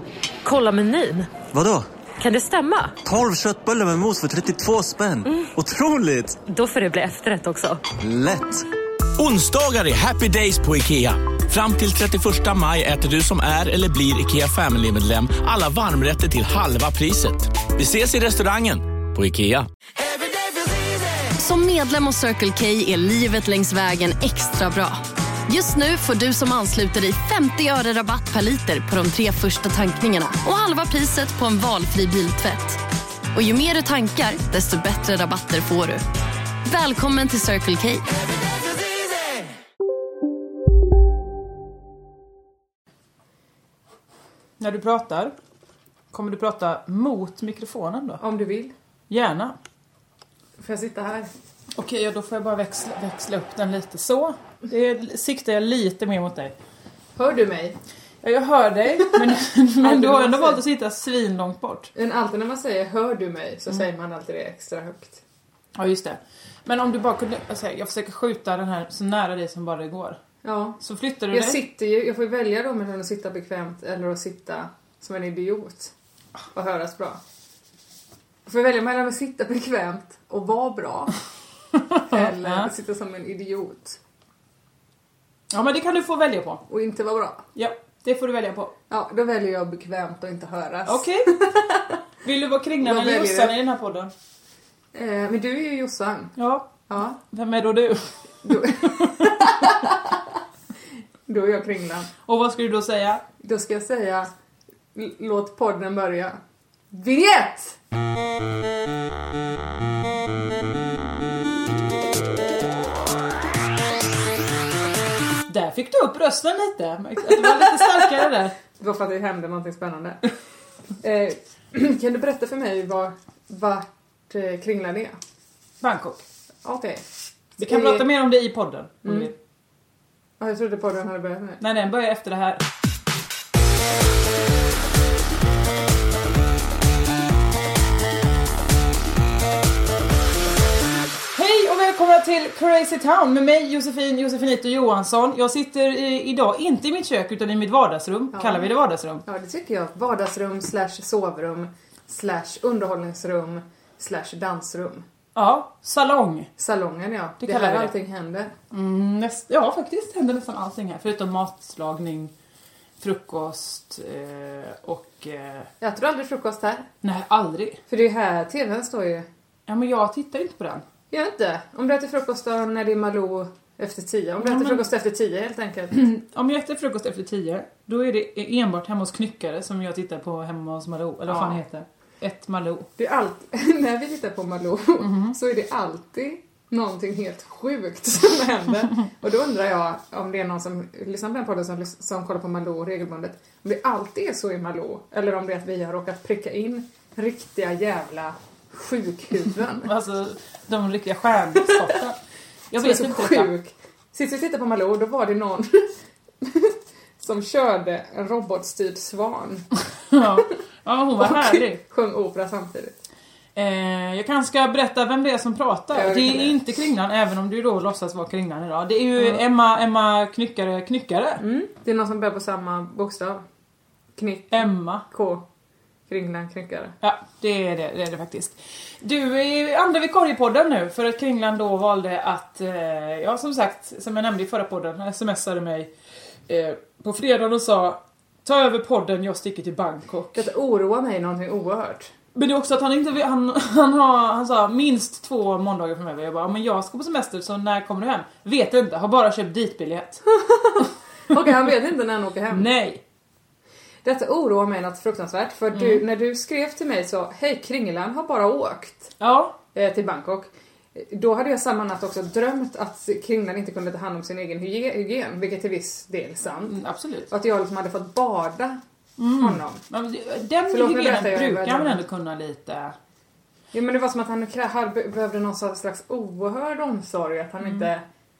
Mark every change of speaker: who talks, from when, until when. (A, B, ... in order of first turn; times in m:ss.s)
0:00.4-0:01.4 A
0:01.5-0:01.9 B
0:02.2-0:03.0 A
0:03.0-0:06.4 B
0:06.4-0:07.9 A
0:08.0-0:08.6 B
0:09.2-0:19.7 C
0:21.4-0:32.8 D
0:33.3-0:36.0 D
0:36.7-0:38.1 D
0:44.6-0:45.3 E
0:46.1-0:48.2 E
0:48.2-0:48.7 F
0:49.1-0:49.6 E
0:50.6-0:51.3 F
0:51.7-0:56.5 E
0:57.2-0:57.8 F
0:58.2-1:01.9 E
0:59.1-1:00.6 F
1:01.9-1:05.2 F
1:05.7-1:10.2 E
1:10.4-1:15.9 F
1:10.8-1:11.6 E
1:16.5-1:17.2 F
1:18.4-1:21.2 F
1:21.8-1:22.7 E
1:22.1-1:24.0 F
1:25.5-1:26.6 E
1:26.7-1:27.4 F
1:27.5-1:28.7 E
1:28.9-1:32.0 F
1:30.8-1:31.3 E
1:32.2-1:34.1 E
1:32.8-1:33.6 F
1:34.9-1:36.4 F
1:36.4-1:39.5 E
1:36.9-1:37.2 F
1:38.4-1:40.4 F
1:41.3-1:42.1 F
1:42.2-1:43.2 E
1:43.4-1:44.3 F
1:44.9-1:46.4 F
1:46.9-1:47.8 F
1:55.5-1:58.5 E
1:58.8-2:00.2 F
2:01.0-2:05.2 F
2:05.8-2:06.2 E
2:06.6-2:07.0 F
2:07.6-2:08.1 F
2:07.6-2:09.3 E
2:09.0-2:09.3 F
2:10.4-2:11.6 F
2:11.6-2:12.6 E
2:21.3-2:29.2 E
2:28.3-2:28.7 F
2:29.2-2:35.0 F
2:35.3-2:36.5 E
2:36.6-2:38.5 F
2:37.4-2:37.9 E
2:38.7-2:42.3 E
2:43.0-2:45.7 E
2:45.8-2:46.9 F
2:47.0-2:47.8 E
2:47.9-2:49.3 F
2:49.7-2:50.8 E
2:51.1-2:55.9 F
2:54.4-2:54.8 E
2:55.9-3:02.9 E
3:01.3-3:01.6 F
3:03.0-3:19.9 F
3:05.0-3:05.3 E
3:19.8-3:22.2 E
3:21.5-3:22.0 F
3:22.7-3:23.5 E
3:22.8-3:29.7 F
3:30.1-3:31.8 E
3:31.2-3:33.0 F
3:33.6-3:41.4 E
3:35.9-3:36.6 F
3:39.2-3:39.4 F
3:41.4-3:43.4 F
3:44.2-3:45.5 F
3:44.5-3:45.0 E
3:46.1-3:47.0 F
3:47.0-3:55.9 E
3:56.5-4:00.4 E
4:00.3-4:02.1 F
4:02.3-4:10.2 E
4:10.3-4:12.7 F
4:12.5-4:13.0 E
4:14.0-4:19.2 F
4:15.7-4:16.0 E
4:19.2-4:19.6 E
4:19.7-4:26.8 F
4:26.6-4:27.3 E
4:27.3-4:28.8 F
4:29.2-4:32.9 E
4:29.3-4:29.8 F
4:30.7-4:32.0 F
4:33.7-4:38.0 F